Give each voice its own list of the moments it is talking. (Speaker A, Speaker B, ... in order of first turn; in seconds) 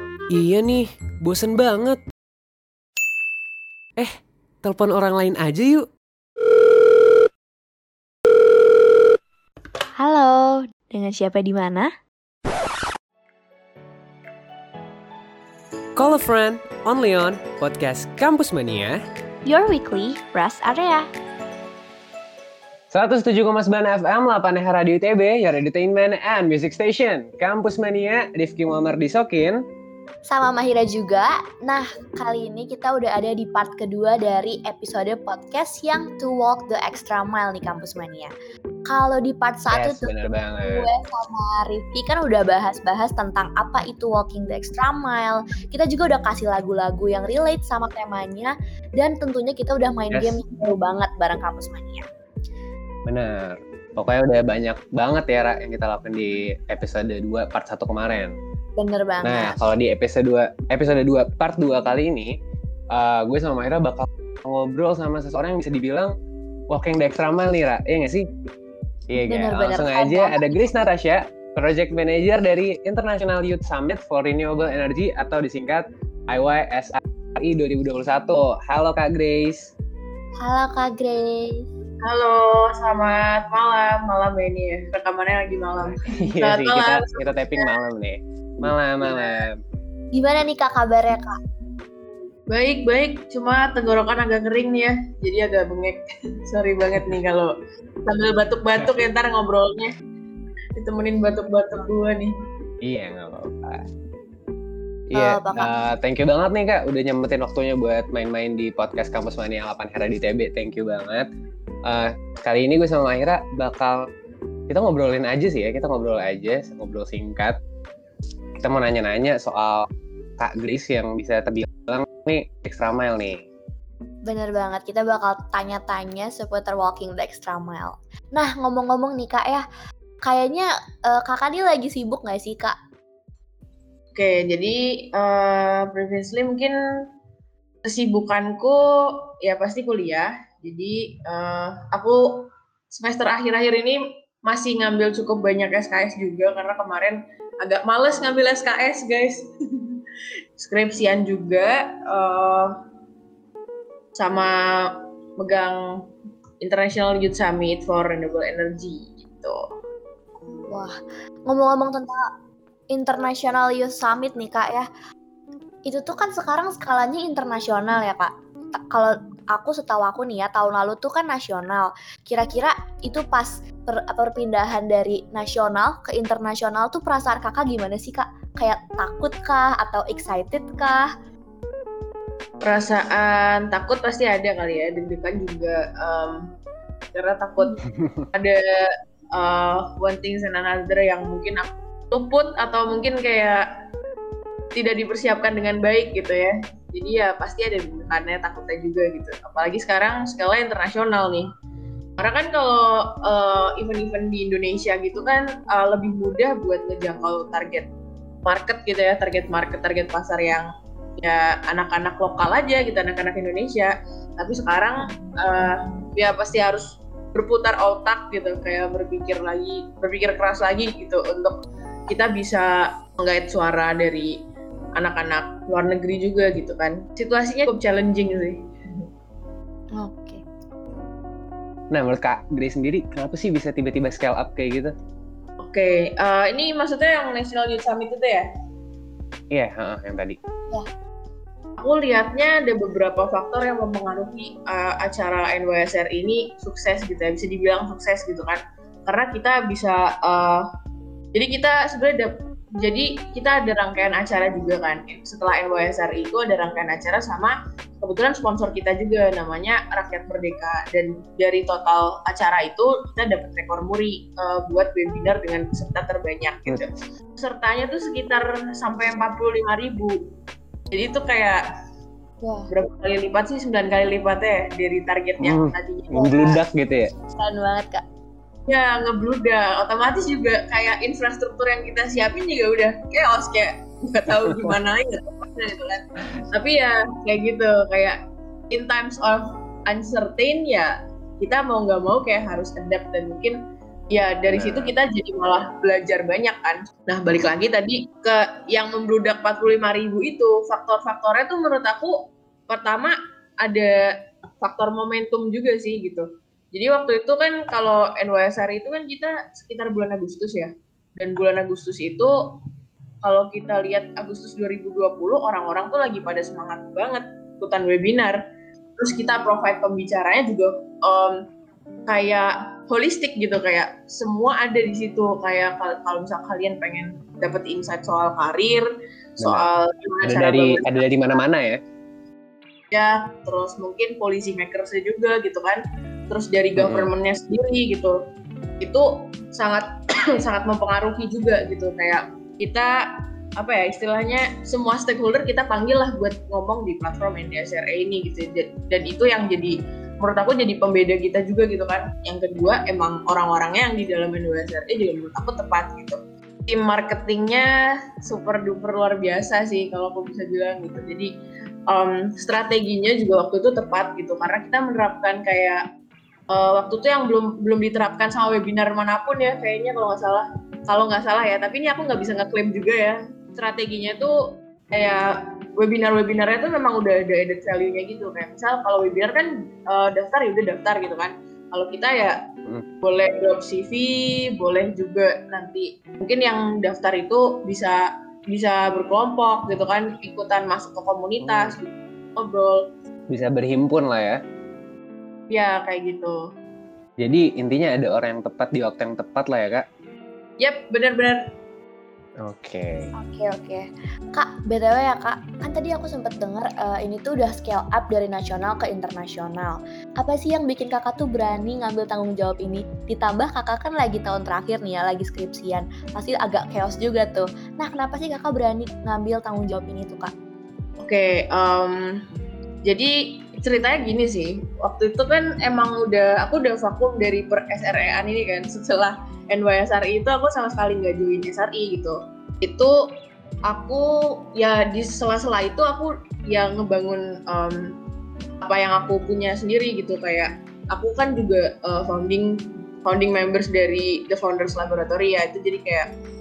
Speaker A: 0.3-2.0, 4.0-5.9, 16.0-19.0, 22.9-29.6, 39.7-40.8, 50.1-50.4, 53.1-58.3, 59.2-62.3, 62.9-66.1, 66.7-68.3, 69.1-79.7, 85.9-89.6, 102.8-103.8, 105.1-111.3, 111.9-114.0, 114.7-117.6, 118.6-119.8, 120.4-123.4, 187.9-188.3, 231.9-234.9, 239.5-240.4, 275.4-277.1, 284.3-284.8, 294.5-294.9, 329.4-329.7, 330.2-331.8, 336.8-337.1, 391.4-391.8, 393.3-394.4, 397.2-399.8, 402.4-403.1
Speaker B: 10.0-11.9, 19.5-21.1, 30.3-38.3, 38.9-40.1, 40.6-52.0, 58.8-59.6, 69.3-70.7, 80.4-81.6, 90.1-91.4, 105.1-105.7, 124.3-129.6, 130.2-132.8, 160.7-161.0, 161.5-162.3, 162.9-164.9, 165.9-181.1, 229.9-230.4, 272.4-272.7, 277.4-278.0, 403.2-420.3
Speaker C: 82.0-87.7, 89.0-89.3, 92.5-97.5, 98.0-99.9, 100.8-102.3, 134.2-136.8, 137.8-149.5, 150.6-152.7, 154.2-155.8, 156.6-159.6, 182.6-186.5, 187.1-187.8, 188.3-193.6, 194.8-201.5, 202.2-207.9, 208.4-210.7, 211.2-221.6, 222.1-224.3, 225.0-228.6, 235.6-238.5, 241.8-250.7, 251.3-270.2, 270.9-271.6, 272.7-276.6, 278.7-288.2, 288.7-293.6, 294.1-302.2, 302.7-304.0, 304.6-312.3, 313.2-318.4, 319.0-321.4, 322.1-328.9, 329.4-331.1, 332.9-338.2, 338.8-343.0, 343.6-361.3, 361.9-365.8, 366.5-374.3, 374.9-382.4, 383.0-392.8, 395.5-396.4, 400.6-401.4, 421.0-422.2, 422.9-433.0, 433.7-437.9, 438.6-446.1